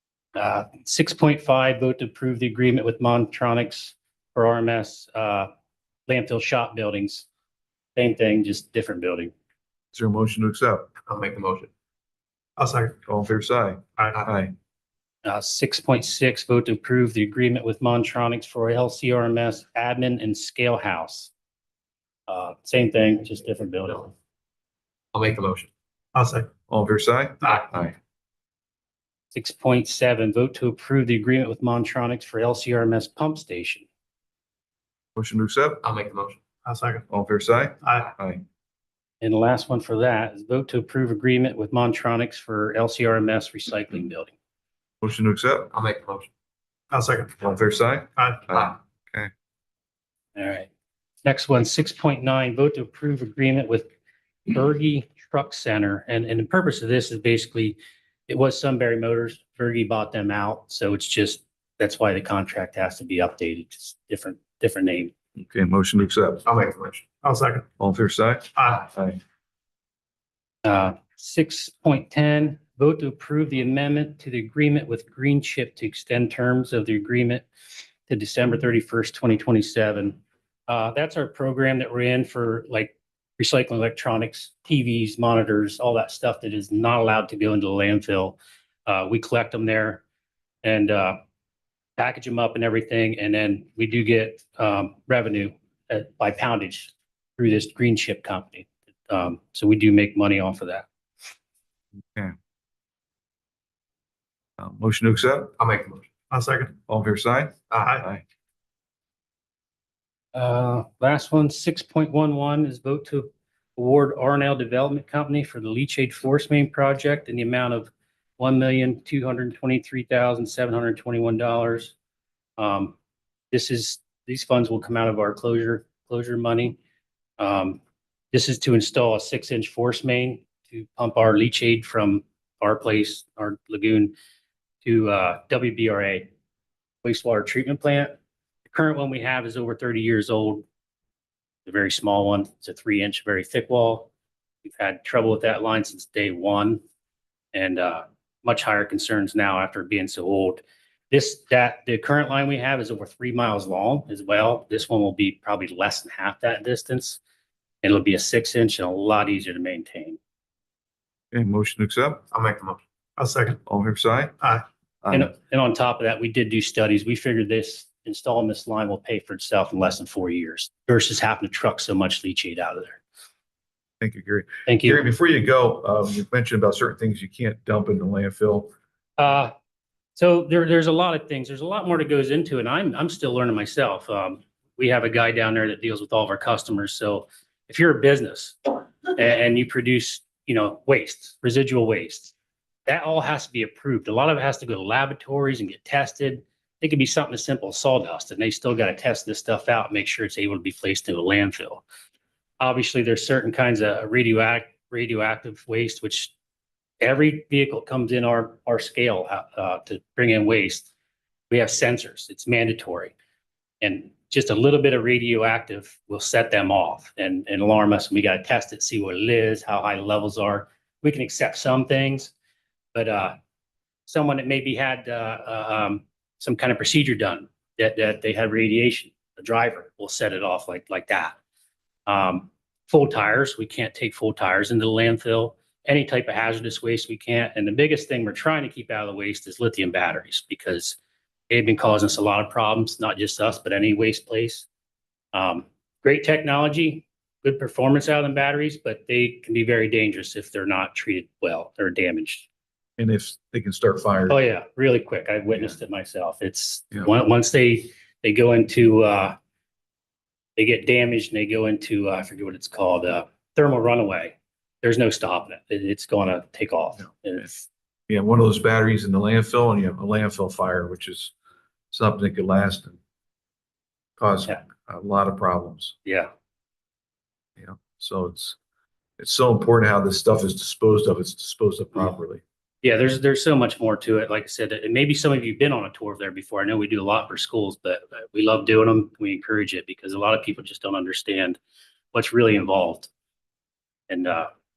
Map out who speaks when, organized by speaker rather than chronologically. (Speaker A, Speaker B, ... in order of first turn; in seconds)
Speaker A: 0.3-5.5, 6.1-7.2, 8.0-9.3, 15.2-21.3, 22.3-24.1, 29.3-33.9, 39.2-44.3, 50.4-50.7, 51.2-53.9, 54.5-65.1, 70.6-77.5, 78.1-90.0, 90.6-91.2, 92.0-100.8, 110.3-121.9, 122.6-122.9, 123.5-126.8, 127.4-127.8, 128.3-134.1, 134.8-136.3, 137.0-138.1, 138.7-140.6, 141.7-144.1, 144.6-146.8, 147.5-157.2, 157.8-160.2, 165.1-173.0, 174.7-175.1, 179.2-179.5, 180.2-192.3, 192.8-201.8, 202.6-206.3, 207.0-210.9, 211.5-213.1, 213.8-222.3, 222.9-223.4, 224.1-231.3, 232.1-241.0, 241.5-244.7, 245.3-252.5, 254.3-259.4, 260.6-267.6, 282.8-291.6, 292.1-293.1, 294.1-294.5
Speaker B: 9.9-10.9, 13.1-14.5, 26.7-27.9, 35.1-35.8, 37.1-38.4, 45.0-45.7, 47.4-49.3, 65.4-66.5, 67.8-69.2, 104.6-105.5, 106.9-108.2, 161.3-162.2, 163.7-164.3, 165.0-165.3, 174.0-178.7, 253.0-254.4, 268.1-271.3, 271.9-273.0, 274.2-275.9, 277.6-278.6, 279.2-282.4
Speaker C: 11.1-11.7, 25.1-25.7, 35.8-36.4, 45.7-46.3, 66.5-67.2, 105.6-106.1, 107.7-108.0, 162.3-162.8
Speaker D: 12.6-12.9, 14.0-14.2, 26.1-26.5, 36.6-37.0, 37.8-38.1, 46.9-47.3, 48.2-48.4, 67.2-67.7, 68.6-68.8, 106.3-106.7, 163.2-163.6